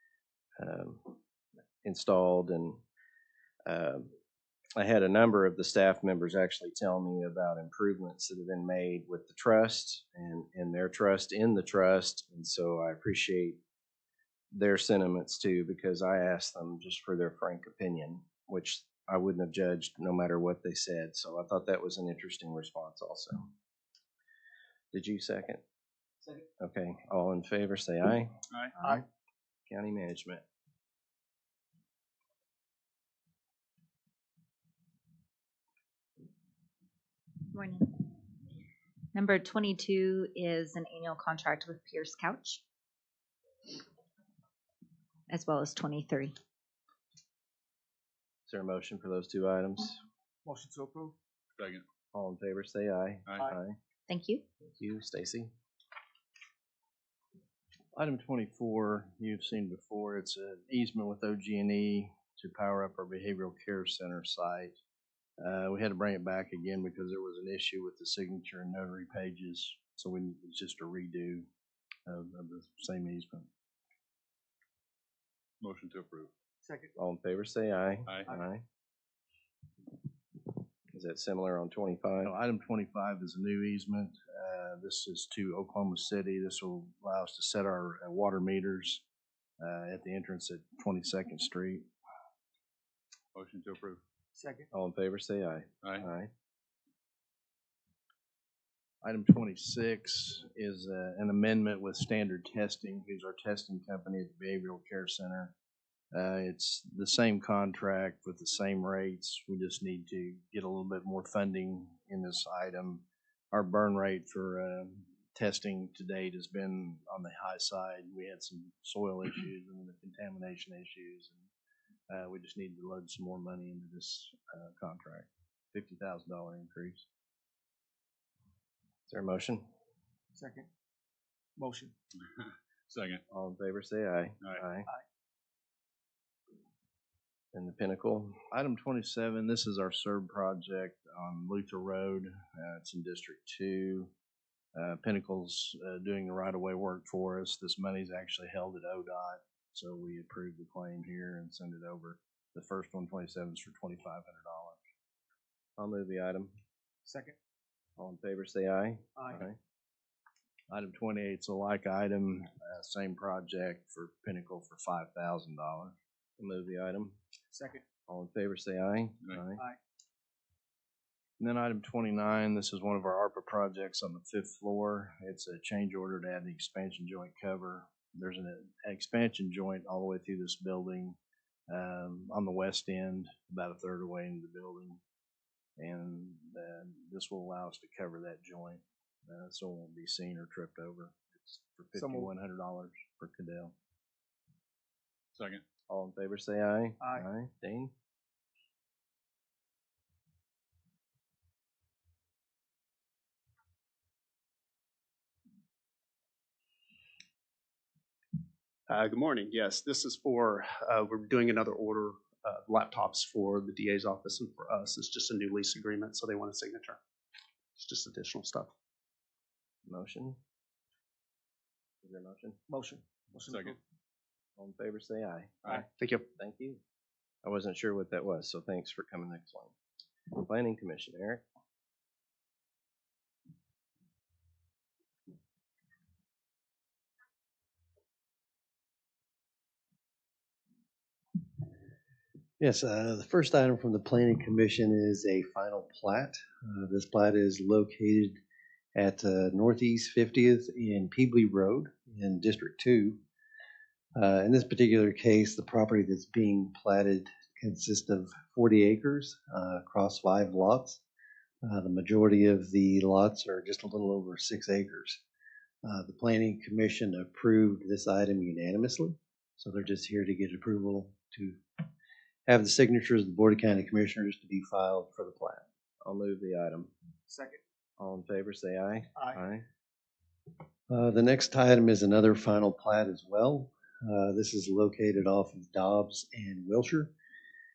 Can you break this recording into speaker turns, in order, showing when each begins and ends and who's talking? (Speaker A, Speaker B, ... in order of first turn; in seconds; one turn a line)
Speaker A: 0.6-1.2
Speaker A: 1.8-2.8
Speaker A: 3.7-4.1
Speaker A: 4.8-13.6
Speaker A: 14.5-23.5
Speaker A: 24.9-25.6
Speaker A: 26.4-28.3
Speaker A: 29.7-30.4
Speaker B: 37.5-38.2
Speaker B: 39.1-42.6
Speaker B: 45.3-46.4
Speaker A: 48.5-50.0
Speaker C: 50.5-51.1
Speaker D: 51.6-51.9
Speaker A: 52.1-53.8
Speaker D: 53.3-53.5
Speaker B: 54.1-54.4
Speaker A: 54.6-55.5
Speaker E: 58.0-64.8
Speaker E: 65.4-71.5
Speaker E: 72.1-73.5
Speaker D: 75.6-76.3
Speaker C: 76.6-76.9
Speaker A: 77.0-78.6
Speaker D: 78.1-78.4
Speaker A: 80.9-82.3
Speaker E: 82.2-89.0
Speaker E: 89.6-91.9
Speaker D: 93.3-94.0
Speaker C: 94.3-94.7
Speaker A: 94.7-96.3
Speaker E: 99.0-105.5
Speaker E: 106.1-121.5
Speaker E: 122.1-127.0
Speaker A: 129.1-129.6
Speaker C: 130.3-130.7
Speaker C: 131.6-131.9
Speaker D: 132.1-133.2
Speaker A: 133.3-134.9
Speaker A: 137.5-138.4
Speaker E: 138.5-144.1
Speaker E: 144.7-154.8
Speaker A: 155.8-156.5
Speaker C: 157.0-157.3
Speaker A: 158.0-159.6
Speaker C: 159.2-159.4
Speaker E: 160.7-165.9
Speaker A: 166.4-167.2
Speaker C: 167.5-167.8
Speaker A: 168.1-169.6
Speaker E: 171.4-181.2
Speaker E: 181.7-185.0
Speaker E: 185.8-193.7
Speaker C: 192.0-192.3
Speaker D: 195.3-195.6
Speaker A: 195.9-197.9
Speaker F: 208.9-217.0
Speaker F: 217.8-218.7
Speaker A: 219.9-220.4
Speaker A: 222.0-222.6
Speaker C: 222.7-223.8
Speaker D: 223.4-223.8
Speaker A: 224.6-225.8
Speaker F: 225.9-226.2
Speaker A: 226.4-226.8
Speaker A: 227.4-229.7
Speaker A: 230.3-231.4
Speaker G: 242.6-248.4
Speaker G: 248.9-253.2
Speaker G: 254.2-261.0
Speaker G: 261.6-265.2
Speaker G: 265.8-271.6
Speaker G: 272.5-275.6
Speaker A: 276.0-276.9
Speaker C: 277.3-277.6
Speaker A: 278.0-279.6
Speaker G: 280.9-287.1